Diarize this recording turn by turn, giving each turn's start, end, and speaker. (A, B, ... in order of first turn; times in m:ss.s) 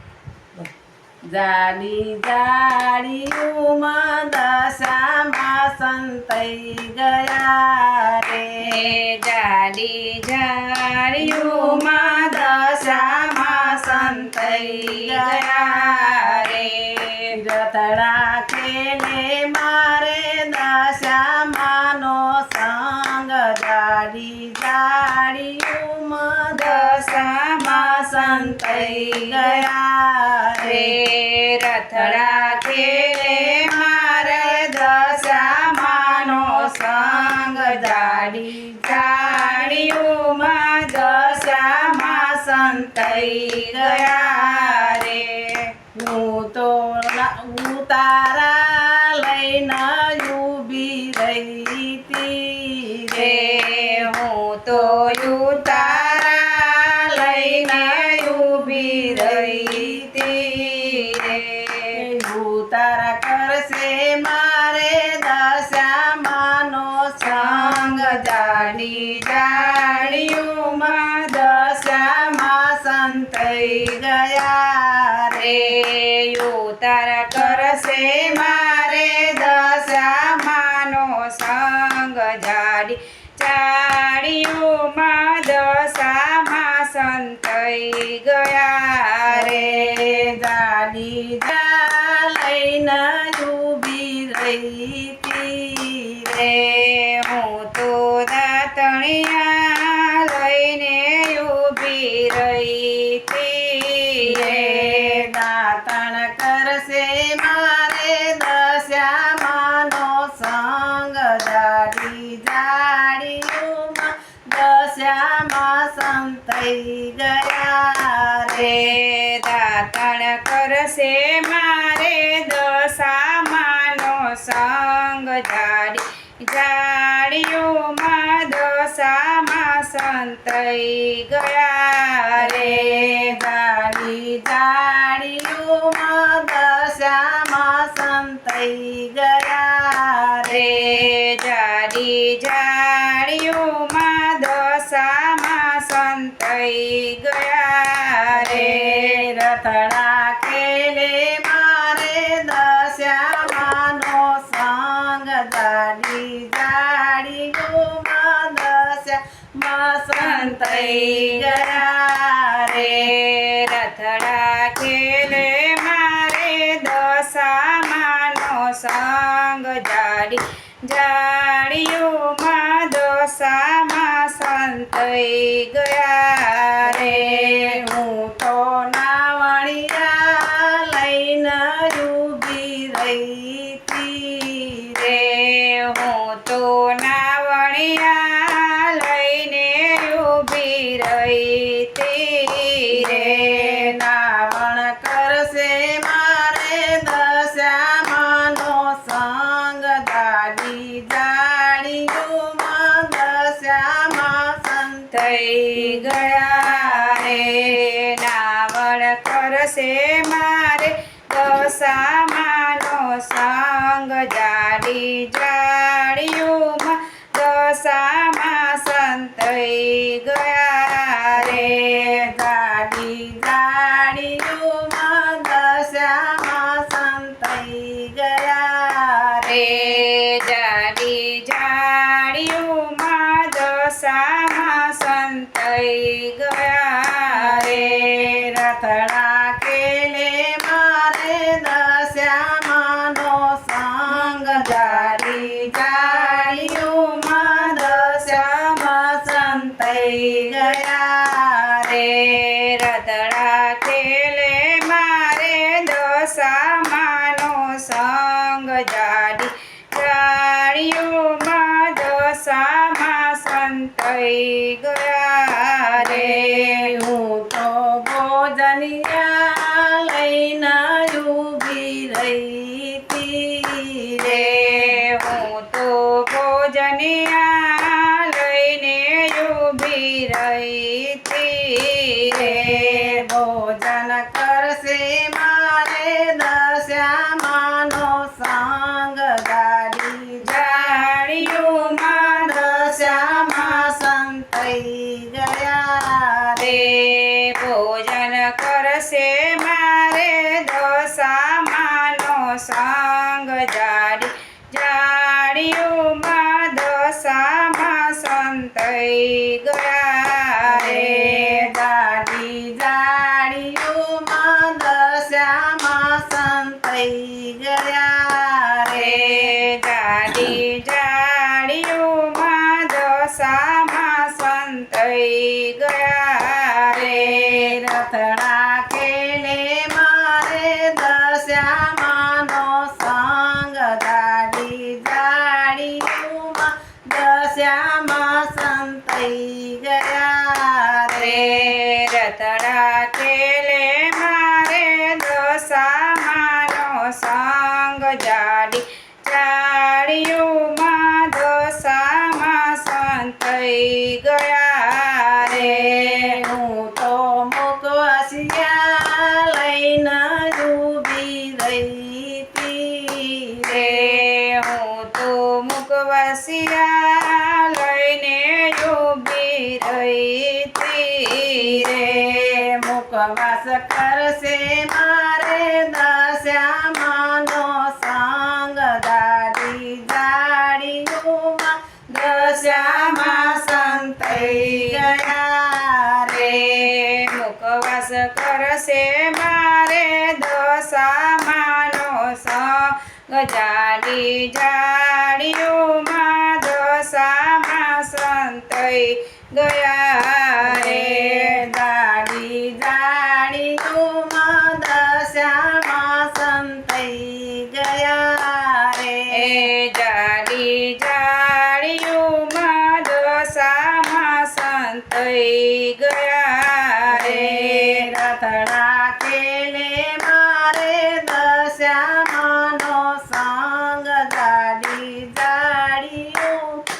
0:01.3-0:08.8 A
0:08.6-0:17.3 B
0:11.2-0:16.3 A
0:17.3-0:27.0 A
0:26.5-0:29.6 B
0:27.6-0:30.9 A
0:30.6-0:45.7 B
0:31.9-0:32.4 A
0:34.2-0:40.2 A
0:40.9-0:45.0 A
0:46.0-0:54.1 A
0:53.1-1:01.9 B
0:54.7-0:56.2 A
0:57.1-1:00.0 A
1:01.9-1:15.7 A
1:07.2-1:12.0 B
1:15.3-1:30.3 B
1:17.4-1:18.3 A
1:29.3-1:36.3 A
1:36.3-1:45.3 B
1:44.2-1:58.9 A
1:58.5-2:13.3 B
2:12.4-2:21.0 A
2:20.4-2:29.2 B
2:28.3-2:43.1 A
2:40.2-2:41.8 B
2:42.7-2:57.8 B
2:56.8-3:05.0 A
3:04.9-3:13.9 B
3:12.9-3:27.2 A
3:25.1-3:42.3 B
3:41.4-3:49.9 A
3:49.4-3:58.4 B
3:57.3-4:12.0 A
4:04.1-4:10.8 B
4:11.8-4:26.9 B
4:26.0-4:35.0 A
4:34.2-4:43.2 B
4:42.3-4:50.9 A
4:50.4-4:53.9 B
4:51.4-4:56.7 A
4:56.6-5:11.7 B
5:10.6-5:19.5 A
5:18.9-5:27.8 B
5:26.9-5:41.7 A
5:41.1-5:56.4 B
5:55.4-6:04.2 A
6:03.7-6:12.6 B
6:11.6-6:26.7 A
6:22.1-6:25.2 B
6:26.3-6:41.6 B
6:40.6-6:49.6 A
6:49.3-6:58.1 B
6:57.1-7:06.8 A